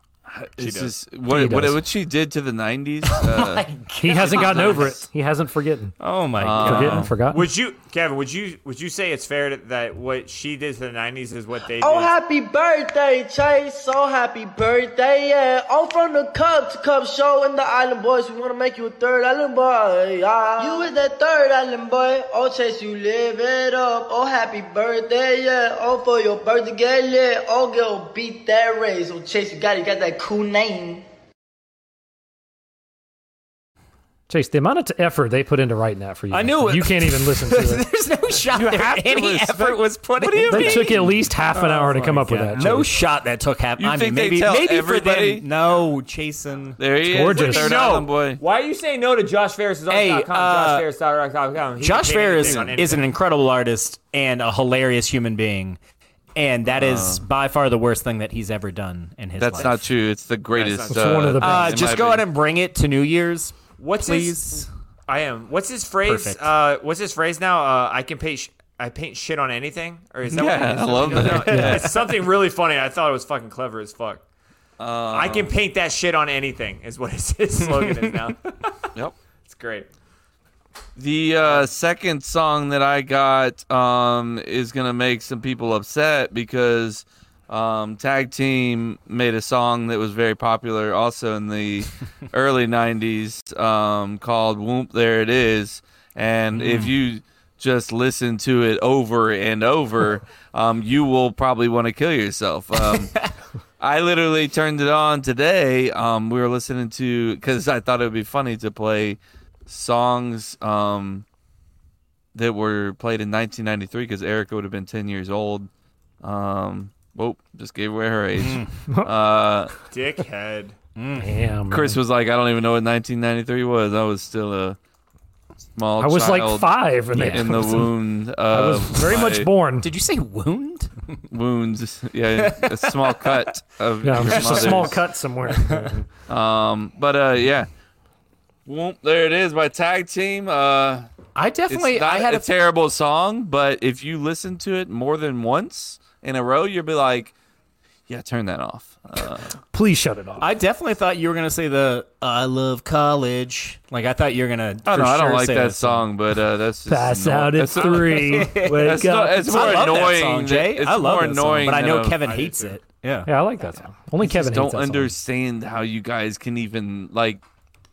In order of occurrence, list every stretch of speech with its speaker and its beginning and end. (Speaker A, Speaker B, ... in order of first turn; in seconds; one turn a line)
Speaker A: 0.3-3.7
Speaker B: 0.6-0.9
Speaker C: 1.3-1.9
Speaker D: 3.1-4.9
Speaker C: 4.0-6.0
Speaker A: 4.2-4.9
Speaker D: 6.0-7.1
Speaker A: 6.4-7.2
Speaker C: 6.6-7.5
Speaker B: 7.3-12.1
Speaker E: 11.8-31.0
Speaker C: 34.3-37.8
Speaker D: 36.3-46.8
Speaker A: 38.5-41.1
Speaker C: 40.5-42.9
Speaker A: 43.8-45.5
Speaker A: 46.8-48.4
Speaker C: 47.0-47.8
Speaker B: 47.3-53.0
Speaker D: 49.9-50.9
Speaker D: 51.8-55.8
Speaker A: 52.4-52.7
Speaker D: 56.4-59.8
Speaker A: 56.7-57.2
Speaker A: 59.4-62.3
Speaker B: 60.5-61.3
Speaker C: 60.9-61.8
Speaker D: 61.4-64.7
Speaker B: 63.8-64.4
Speaker B: 65.1-74.2
Speaker D: 66.0-66.5
Speaker A: 70.3-71.9
Speaker D: 71.1-71.9
Speaker C: 71.5-71.8
Speaker A: 74.8-75.5
Speaker B: 75.1-78.7
Speaker B: 79.4-79.9
Speaker A: 81.0-103.1
Speaker B: 81.4-81.7
Speaker D: 96.5-96.9
Speaker D: 103.0-103.2
Speaker A: 103.8-111.2
Speaker A: 112.3-115.7
Speaker A: 116.2-119.7
Speaker D: 118.4-118.7
Speaker B: 119.9-120.8
Speaker D: 121.0-121.4
Speaker C: 121.2-122.0
Speaker A: 121.7-124.8
Speaker A: 125.7-129.5
Speaker C: 126.0-129.9
Speaker D: 127.2-127.4
Speaker D: 129.8-131.2
Speaker A: 131.3-135.0
Speaker D: 132.3-133.5
Speaker C: 134.0-136.1
Speaker D: 134.2-134.9
Speaker D: 135.5-135.9
Speaker A: 136.3-137.7
Speaker A: 138.7-141.1
Speaker D: 141.3-142.5
Speaker A: 141.7-147.3
Speaker A: 148.1-149.6
Speaker C: 149.7-150.5
Speaker D: 150.4-156.1
Speaker A: 154.9-162.2
Speaker C: 156.9-160.0
Speaker D: 157.8-163.3
Speaker B: 162.2-162.8
Speaker C: 163.2-165.1
Speaker A: 164.2-167.4